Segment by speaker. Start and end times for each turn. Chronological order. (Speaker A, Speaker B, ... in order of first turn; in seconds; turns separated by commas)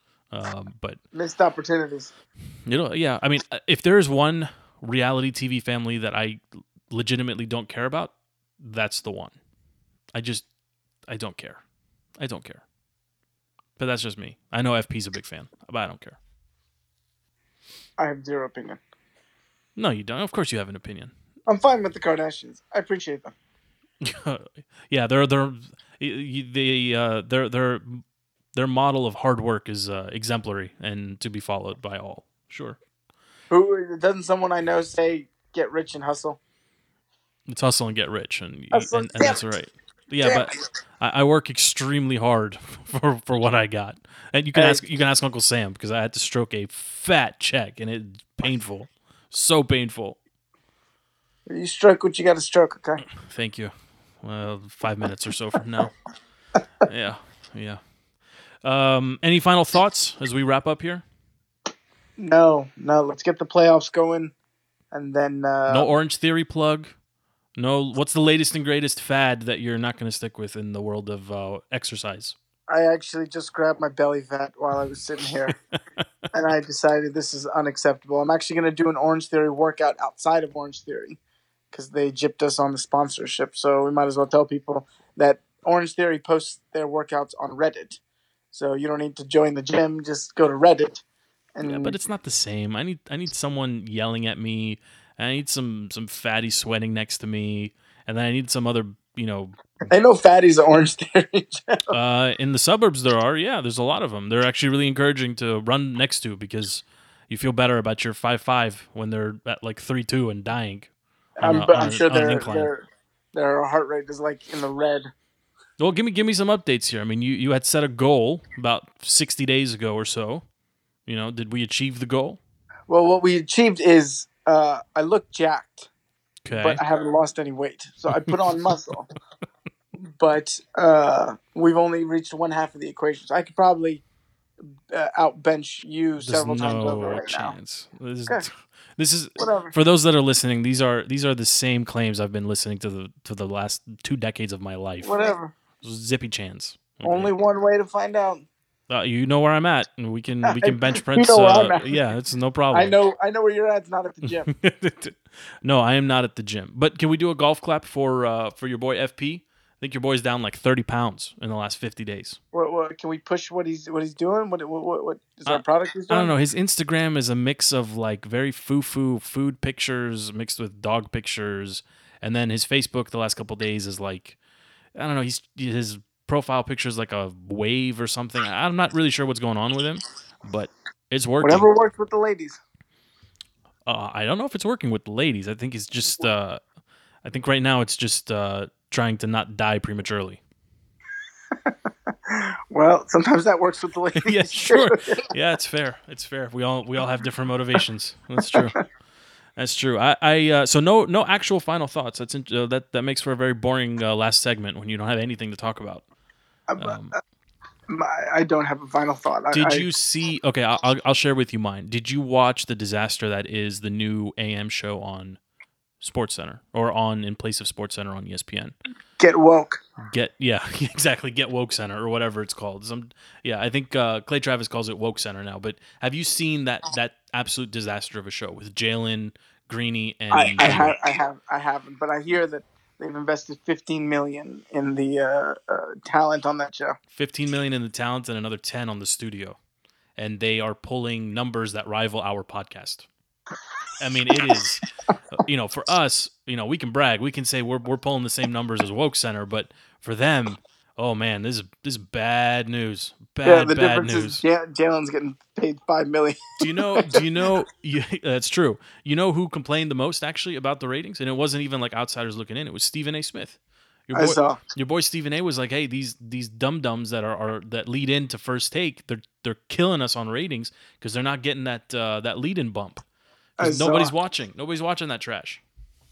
Speaker A: 0.3-1.0, Speaker B: 1.1-2.1, Speaker A: 2.7-9.3, Speaker A: 10.1-10.5, Speaker A: 11.1-11.6, Speaker A: 12.2-12.6, Speaker A: 13.8-16.2, Speaker B: 18.0-18.8, Speaker A: 19.8-21.1, Speaker B: 21.5-23.3, Speaker A: 24.0-28.0, Speaker A: 28.6-32.8, Speaker B: 33.5-36.4, Speaker A: 37.5-50.2, Speaker B: 38.7-39.5, Speaker B: 40.2-40.5, Speaker B: 44.5-44.8, Speaker B: 51.5-53.0, Speaker A: 53.1-56.0, Speaker A: 56.9-57.8, Speaker A: 58.6-61.0, Speaker B: 62.2-64.3, Speaker B: 64.9-65.9, Speaker A: 65.7-66.9, Speaker A: 67.6-72.4, Speaker B: 72.7-75.6, Speaker A: 75.5-76.0, Speaker B: 76.3-81.2, Speaker B: 81.7-88.0, Speaker B: 88.5-91.0, Speaker B: 91.5-92.0, Speaker A: 91.6-99.6, Speaker B: 99.9-101.9, Speaker A: 101.9-110.9, Speaker B: 111.4-115.1, Speaker A: 111.4-112.7, Speaker A: 115.8-120.5, Speaker A: 121.1-122.4, Speaker B: 122.9-125.9, Speaker A: 126.4-126.8, Speaker B: 126.5-129.1, Speaker B: 130.2-134.0, Speaker B: 134.9-137.6, Speaker A: 136.2-145.1, Speaker B: 139.4-139.7, Speaker B: 145.0-145.5, Speaker A: 145.8-147.3, Speaker B: 147.0-148.5, Speaker A: 148.9-152.9, Speaker B: 150.4-151.9, Speaker B: 152.7-154.5, Speaker A: 154.2-162.4, Speaker B: 162.5-166.3, Speaker A: 165.5-174.4, Speaker A: 175.0-181.7, Speaker B: 181.4-182.6, Speaker A: 183.9-186.6, Speaker A: 187.2-190.4, Speaker B: 191.7-195.2, Speaker A: 194.2-198.8, Speaker A: 199.6-206.1, Speaker B: 206.7-207.2, Speaker A: 206.8-207.2, Speaker B: 207.9-209.9, Speaker A: 209.5-215.4, Speaker A: 216.0-218.8, Speaker B: 219.2-219.8, Speaker A: 220.1-231.0, Speaker B: 230.3-237.0, Speaker A: 237.1-239.6, Speaker A: 240.2-243.1, Speaker A: 244.0-254.4, Speaker B: 253.4-257.1, Speaker A: 256.6-273.0, Speaker B: 264.1-264.6, Speaker A: 273.6-275.6, Speaker B: 273.6-274.1